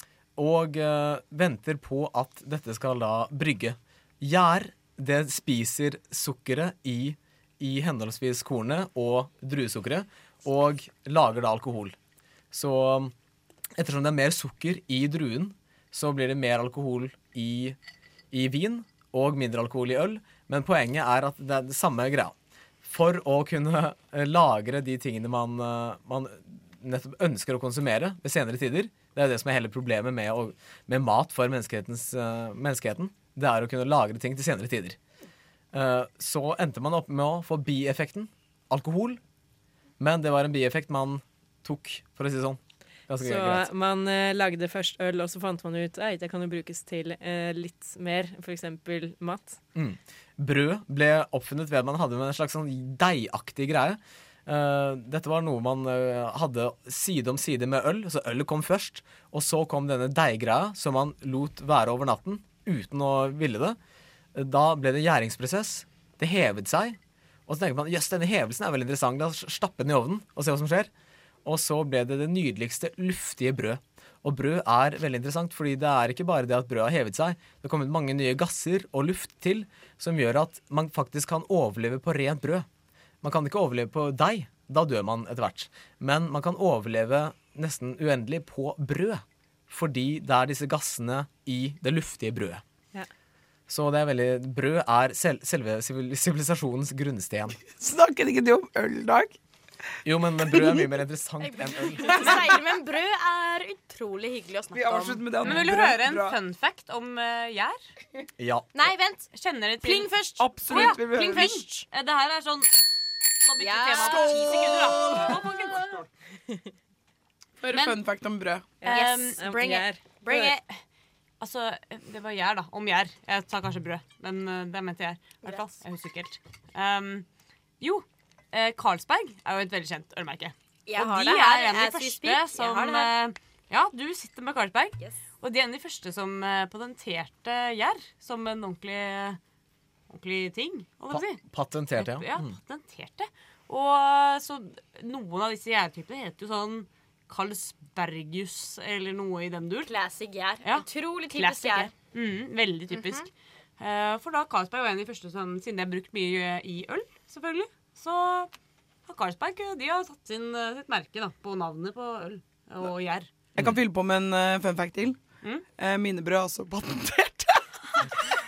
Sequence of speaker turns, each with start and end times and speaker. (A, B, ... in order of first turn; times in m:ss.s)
0:00.4-0:11.9 A
0:12.5-0:13.1 A
0:13.8-0:17.8 A
0:18.3-0:35.0 A
0:35.7-0:39.2 A
0:40.0-0:43.7 A
0:43.2-0:49.6 B
0:49.7-1:03.8 A
1:04.3-1:10.9 A
1:11.4-1:22.6 A
1:23.2-1:32.6 A
1:33.7-1:37.6 A
1:37.7-1:39.4 C
1:40.0-1:42.6 A
1:40.5-1:40.9 C
1:41.4-1:45.7 D
1:44.7-1:46.4 C
1:45.4-1:47.8 E
1:48.4-1:48.9 A
1:48.7-1:51.8 D
1:49.3-1:52.7 E
1:50.4-1:51.5 C
1:53.4-1:56.0 E
1:53.6-1:55.4 D
1:54.0-1:56.0 C
1:57.6-1:58.7 C
1:57.7-1:58.0 D
1:58.8-2:00.0 B
1:58.8-2:00.6 D
1:58.9-1:59.4 E
2:00.3-2:00.6 E
2:01.4-2:07.2 E
2:07.8-2:19.4 E
2:10.9-2:13.1 D
2:20.1-2:21.4 E
2:21.1-2:22.5 A
2:22.0-2:29.9 E
2:29.8-2:31.9 D
2:30.6-2:38.5 E
2:32.9-2:33.3 D
2:39.0-2:43.3 E
2:43.5-2:45.2 C
2:45.8-2:47.7 C